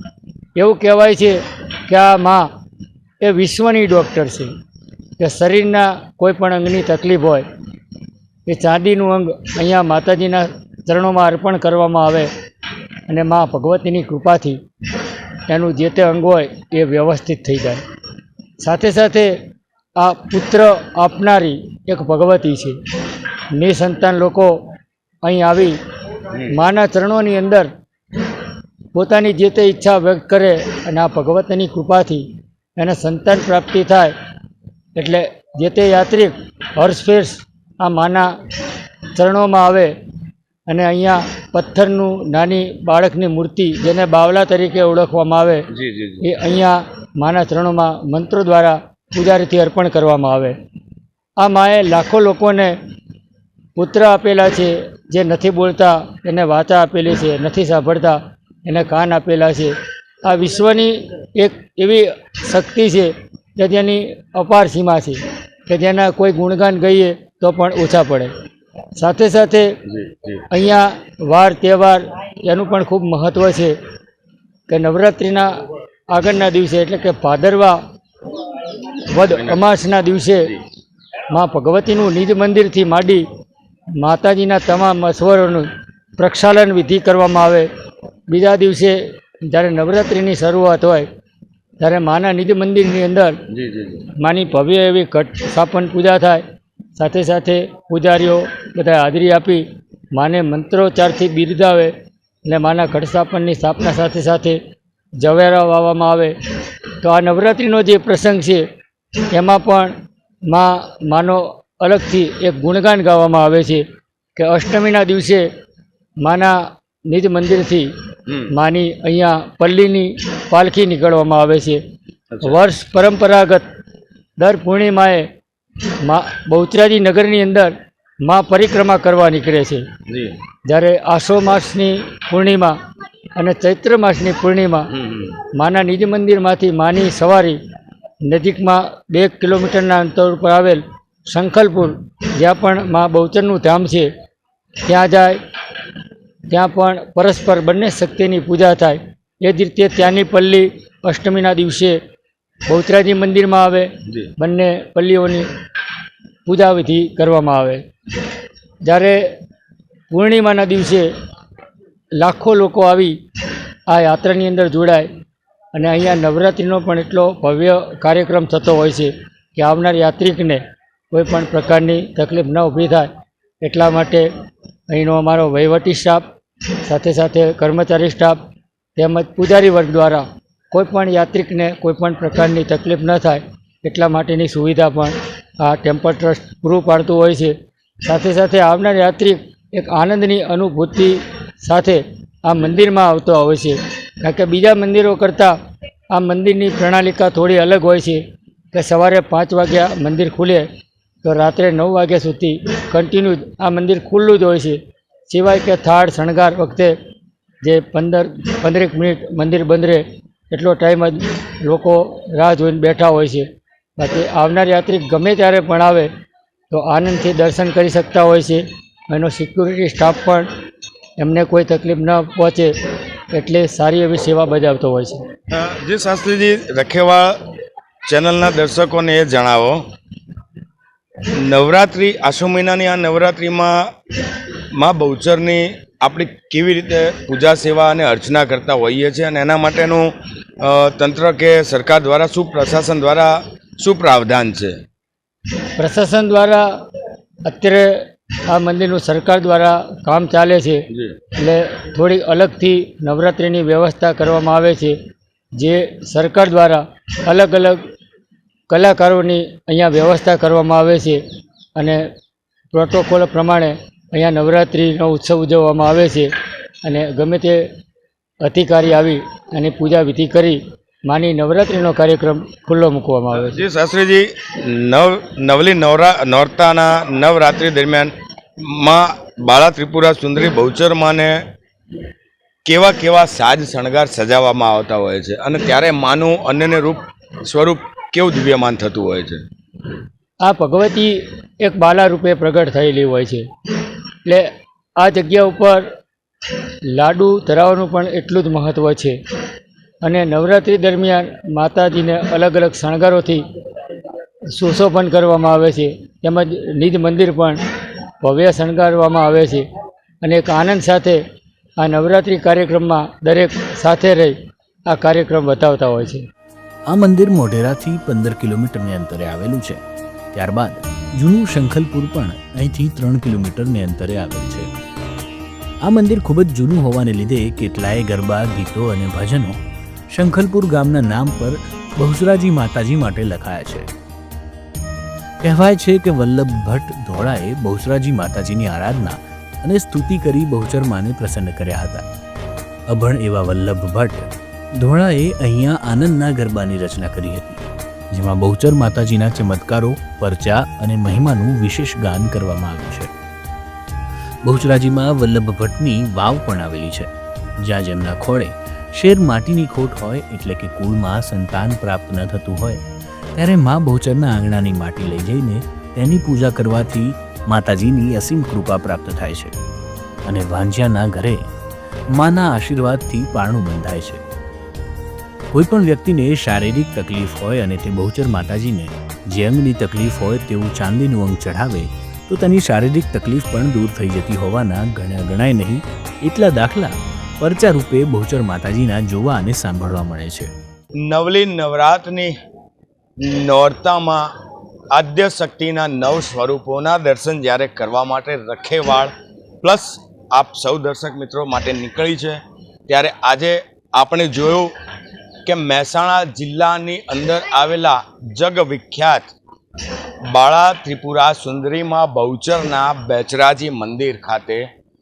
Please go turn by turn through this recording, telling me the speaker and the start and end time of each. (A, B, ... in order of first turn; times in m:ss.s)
0:00.6-0:02.5 A
0:03.2-0:04.5 A
0:05.2-0:07.5 A
0:08.5-0:12.3 A
0:13.1-0:14.6 A
0:15.5-0:17.8 A
0:18.6-0:19.3 A
0:20.0-0:22.8 A
0:23.5-0:24.6 A
0:25.2-0:25.8 A
0:26.4-0:27.7 A
0:28.9-0:34.1 A
0:35.0-0:38.3 A
0:39.2-0:39.9 A
0:40.7-0:45.6 A
0:45.7-0:46.2 B
0:46.2-0:50.6 A
0:51.4-0:52.8 A
0:53.8-1:08.3 A
1:09.0-1:09.7 A
1:09.9-1:10.4 B
1:10.5-1:13.8 A
1:14.7-1:15.5 A
1:16.1-1:17.8 A
1:19.1-1:20.5 A
1:19.3-1:19.6 B
1:21.3-1:23.2 A
1:24.0-1:27.7 A
1:28.3-1:31.1 A
1:31.8-1:33.4 A
1:33.5-1:34.0 B
1:34.2-1:36.4 A
1:37.0-1:41.9 A
1:42.4-1:44.6 A
1:45.2-1:46.4 A
1:47.0-1:48.6 A
1:49.3-1:49.9 A
1:50.5-1:53.8 A
1:54.4-1:55.5 A
1:56.2-1:56.6 A
1:57.1-1:57.9 A
1:58.5-2:01.8 A
2:02.4-2:03.6 A
2:04.4-2:05.3 A
2:06.0-2:09.8 A
2:10.1-2:10.4 B
2:10.7-2:12.8 A
2:13.4-2:14.9 A
2:14.9-2:15.3 B
2:15.5-2:17.6 A
2:18.3-2:24.1 A
2:24.8-2:25.4 A
2:26.5-2:32.0 A
2:32.7-2:35.5 A
2:36.4-2:37.8 A
2:38.8-2:39.2 A
2:40.1-2:41.1 A
2:42.2-2:43.2 A
2:43.9-2:45.1 A
2:45.7-2:53.1 A
2:53.6-2:54.3 A
2:54.9-2:56.3 A
2:56.8-2:58.4 A
2:59.0-3:15.5 A
3:16.1-3:18.2 A
3:18.7-3:20.7 A
3:21.2-3:26.9 A
3:27.6-3:36.1 A
3:36.7-3:40.5 A
3:41.2-3:42.7 A
3:43.3-3:45.2 A
3:45.5-3:47.4 B
3:48.1-3:49.8 B
3:51.3-3:53.9 B
3:54.7-4:04.8 B
4:05.8-4:06.7 A
4:07.4-4:10.8 A
4:11.4-4:15.0 A
4:15.6-4:17.8 A
4:18.7-4:21.2 A
4:21.8-4:22.0 A
4:22.7-4:26.3 A
4:26.8-4:27.6 A
4:28.4-4:33.6 A
4:33.4-4:41.5 B
4:42.6-4:49.4 B
4:50.4-4:53.4 A
4:55.0-4:55.8 A
4:56.9-4:59.2 A
5:00.0-5:03.4 A
5:04.5-5:07.6 A
5:08.2-5:09.7 A
5:10.2-5:11.2 A
5:11.8-5:14.4 A
5:14.9-5:16.3 A
5:16.9-5:19.8 C
5:20.3-5:24.7 C
5:25.8-5:29.6 C
5:30.1-5:33.9 C
5:35.4-5:42.0 C
5:42.9-5:44.3 C
5:44.8-5:53.1 C
5:54.4-5:57.1 C
5:57.6-6:02.8 C
6:03.4-6:09.5 C
6:10.3-6:11.5 C
6:12.1-6:14.2 C
6:15.5-6:30.5 C
6:31.0-6:32.3 B
6:33.2-6:34.3 B
6:34.9-6:44.7 B
6:45.4-6:49.3 B
6:50.3-6:54.7 B